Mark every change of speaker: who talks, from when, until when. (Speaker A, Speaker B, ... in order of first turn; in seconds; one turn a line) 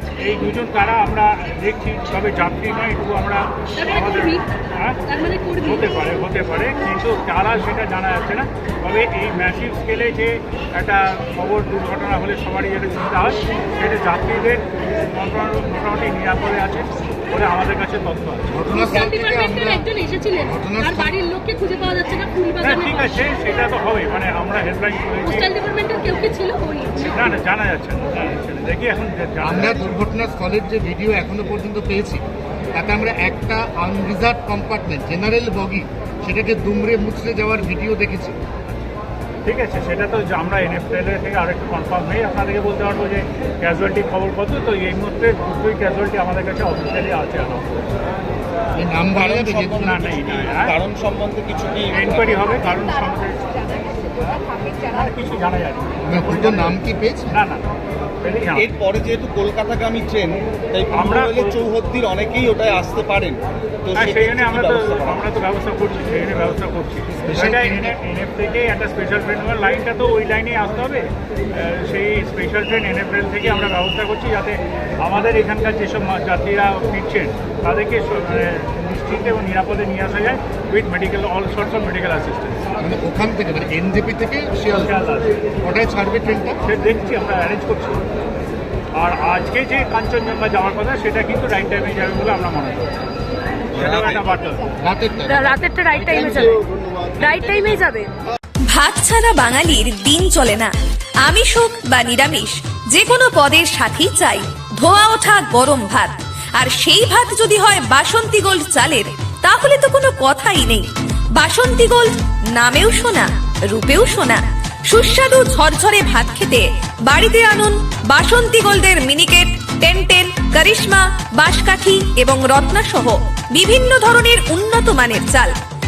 Speaker A: 0.2-5.0
Speaker B: 3.8-4.4
Speaker B: 5.0-5.9
Speaker A: 5.7-18.6
Speaker C: 18.5-19.9
Speaker B: 18.6-23.6
Speaker C: 20.4-21.1
Speaker A: 22.6-25.5
Speaker B: 25.2-27.2
Speaker A: 27.0-29.9
Speaker C: 29.4-38.4
Speaker A: 39.5-47.8
Speaker C: 48.8-50.0
Speaker D: 49.0-52.7
Speaker A: 49.7-50.8
Speaker A: 51.8-57.7
Speaker C: 56.0-57.4
Speaker A: 58.2-58.8
Speaker D: 58.5-65.2
Speaker A: 60.8-61.6
Speaker A: 63.9-82.7
Speaker C: 67.2-67.9
Speaker C: 82.8-84.9
Speaker A: 84.7-85.4
Speaker C: 85.6-86.6
Speaker A: 86.6-88.0
Speaker A: 89.0-93.0
Speaker A: 93.7-94.7
Speaker D: 93.7-94.3
Speaker C: 94.8-96.3
Speaker B: 95.2-96.7
Speaker B: 97.2-98.1
Speaker C: 97.2-97.7
Speaker E: 98.7-100.7
Speaker E: 101.2-125.5